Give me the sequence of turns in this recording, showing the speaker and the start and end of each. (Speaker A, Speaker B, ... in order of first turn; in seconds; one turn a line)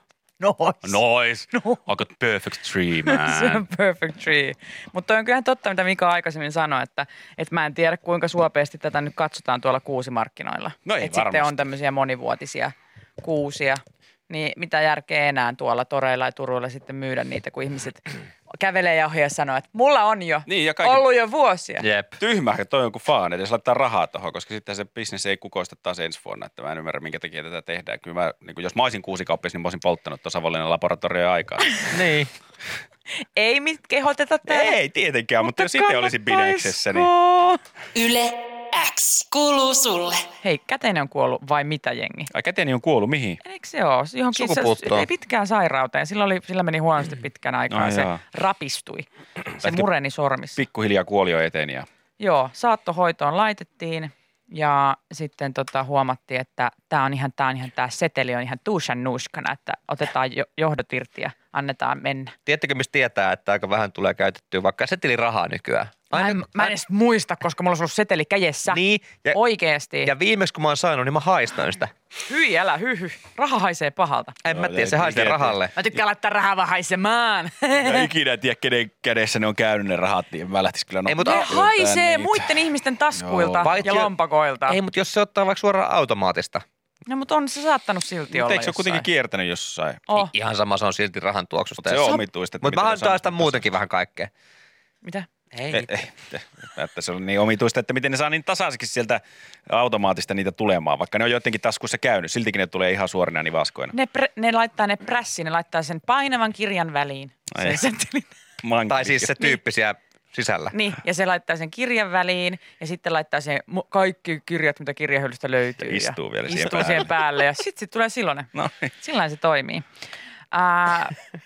Speaker A: 0.4-1.0
Speaker B: 0.8-3.6
Speaker A: 1.5-1.8
Speaker A: 3.0-21.9
Speaker B: 10.8-11.6
Speaker B: 20.5-21.0
Speaker C: 21.8-22.2
Speaker B: 22.2-31.9
Speaker C: 31.9-32.3
Speaker A: 33.2-34.8
Speaker B: 34.5-37.1
Speaker A: 35.4-37.6
Speaker D: 37.9-40.3
Speaker A: 40.4-42.3
Speaker B: 42.3-43.4
Speaker A: 43.4-50.6
Speaker C: 44.3-45.1
Speaker B: 47.7-48.2
Speaker B: 49.6-49.9
Speaker B: 50.5-51.9
Speaker A: 52.2-62.3
Speaker C: 62.5-66.7
Speaker A: 66.1-68.8
Speaker C: 68.7-69.4
Speaker A: 69.3-70.1
Speaker C: 70.0-71.9
Speaker A: 72.3-74.4
Speaker C: 74.4-75.7
Speaker B: 74.5-75.6
Speaker A: 75.8-78.1
Speaker B: 77.8-83.8
Speaker C: 81.0-81.5
Speaker A: 81.2-84.8
Speaker C: 83.6-84.1
Speaker C: 84.7-86.6
Speaker A: 87.1-89.0
Speaker B: 88.3-90.1
Speaker C: 90.1-94.3
Speaker B: 91.8-93.7
Speaker C: 95.5-95.9
Speaker B: 95.7-103.9
Speaker A: 103.9-108.3
Speaker B: 107.5-107.8
Speaker B: 108.6-109.3
Speaker C: 108.9-110.7
Speaker A: 110.7-119.8
Speaker B: 115.8-117.2
Speaker B: 118.5-118.9
Speaker A: 120.5-121.2